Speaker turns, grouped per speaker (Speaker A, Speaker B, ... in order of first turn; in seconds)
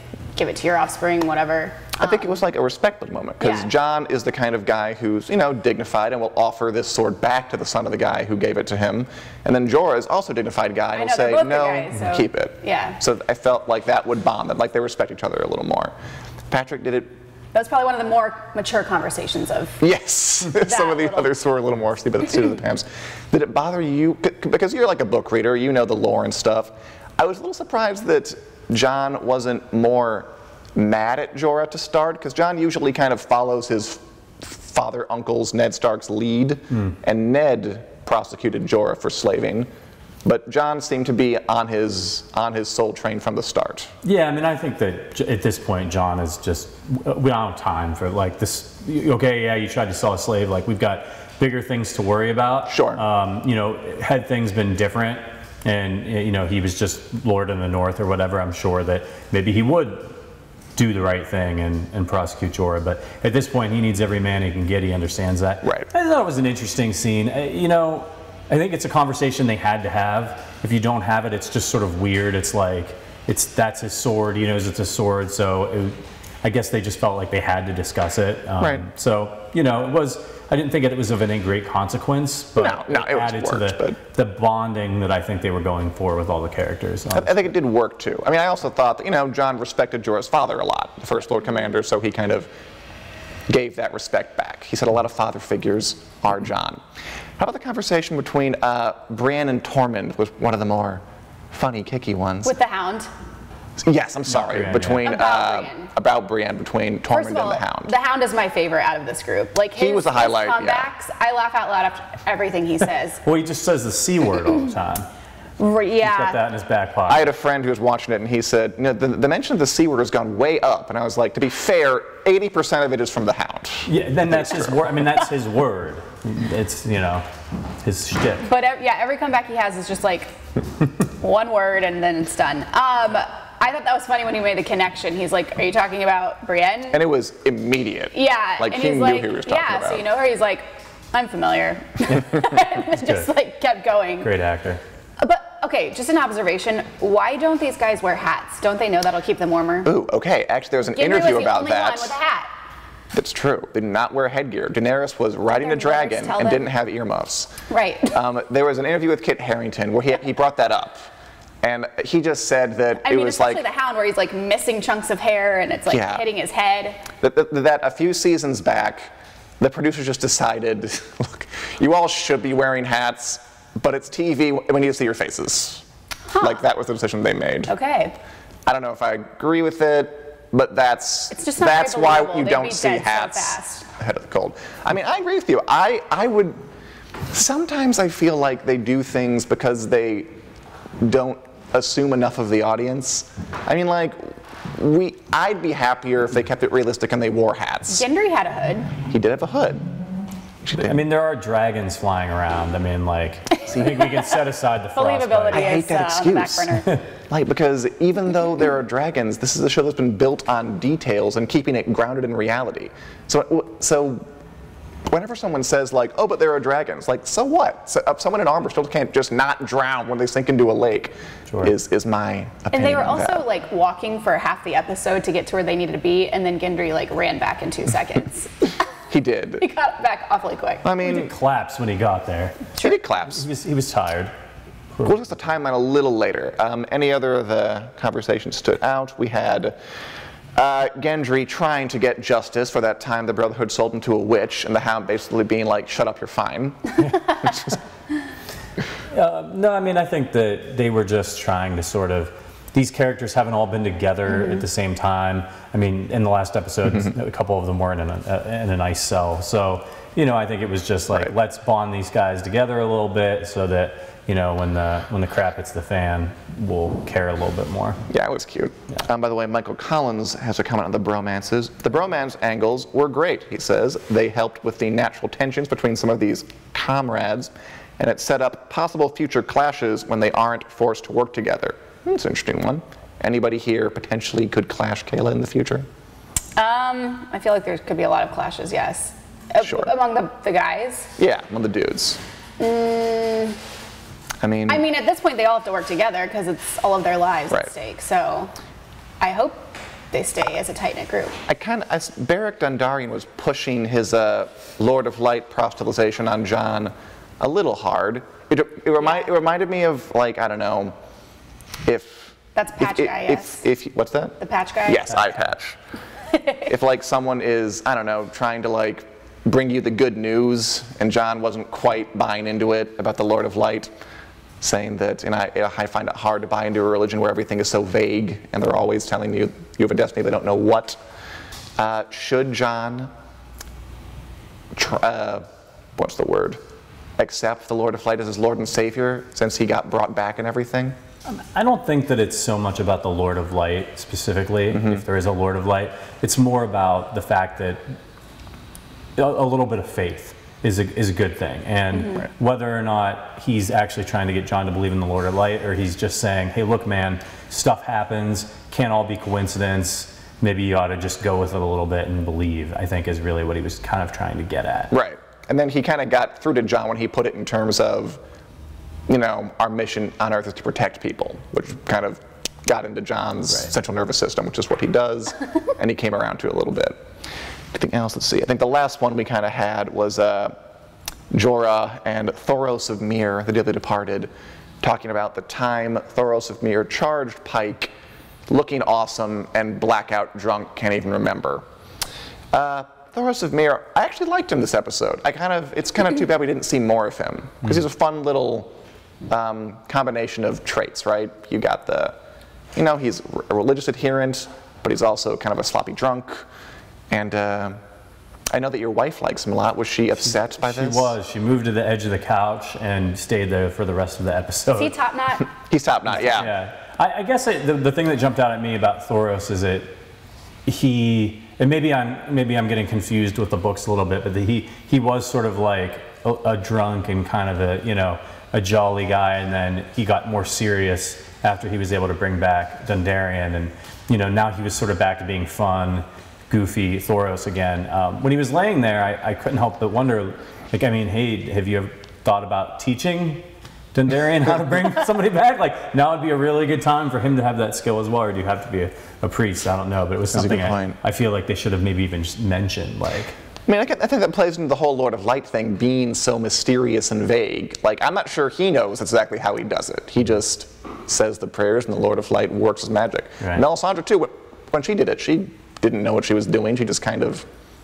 Speaker A: 0.3-2.3, 3.4-3.7, 10.9-13.0, 17.5-19.8, 20.4-21.3, 102.4-103.1, 105.0-105.9, 107.1-113.2, 115.6-116.4, 128.4-130.4, 131.2-137.0, 138.1-144.3, 145.2-149.9, 150.9-152.5, 155.5-156.6, 157.7-158.1, 163.0-167.0, 176.3-176.6, 177.7-178.1, 181.3-183.8, 197.9-198.9, 204.9-206.9, 222.7-228.5, 229.6-230.9, 286.6-291.1, 292.6-293.6, 294.7-298.5, 299.2-301.4, 312.5-313.6, 314.4-315.2, 316.3-316.6, 351.9-352.2, 414.7-415.5
Speaker B: 2.0-15.9, 16.5-17.1, 19.8-39.7, 40.2-43.9, 52.7-53.0, 65.6-65.9, 78.6-78.9, 82.5-84.0, 87.1-92.5, 93.5-96.8, 97.4-102.5, 103.8-107.9, 109.8-110.9, 117.1-124.8, 136.9-140.1, 149.8-152.1, 153.1-157.5, 158.1-161.1, 161.6-163.6, 165.9-166.2, 167.2-175.8, 176.4-177.7, 178.7-186.6, 187.3-190.3, 191.0-198.0, 199.0-199.9, 200.6-201.0, 205.5-214.2, 215.1-223.4, 229.1-229.6, 230.8-231.3, 232.8-233.4, 235.0-239.7, 240.6-247.8, 268.1-285.9, 289.6-289.9, 291.2-292.2, 294.4-294.8, 301.5-310.9, 311.8-315.8, 316.6-323.9, 324.6-331.0, 331.8-333.1, 334.7-336.6, 337.2-340.9, 344.7-345.0, 364.9-368.2, 369.1-377.0, 377.7-380.6, 381.3-384.3, 384.8-387.9, 388.5-391.6, 392.5-398.7, 399.3-402.1, 402.7-406.4, 407.1-407.8, 408.5-411.1, 415.7-416.5, 450.3-450.9, 453.7-467.4
Speaker C: 44.0-60.2, 60.8-87.5, 104.3-105.1, 113.2-115.1, 116.0-117.3, 123.8-127.2, 127.8-128.5, 142.1-143.3, 144.2-144.8, 200.8-205.7, 221.5-221.7, 231.0-232.7, 233.2-234.3, 249.1-268.0, 341.3-347.9, 349.2-364.9, 410.3-414.9, 416.1-419.9, 420.6-453.3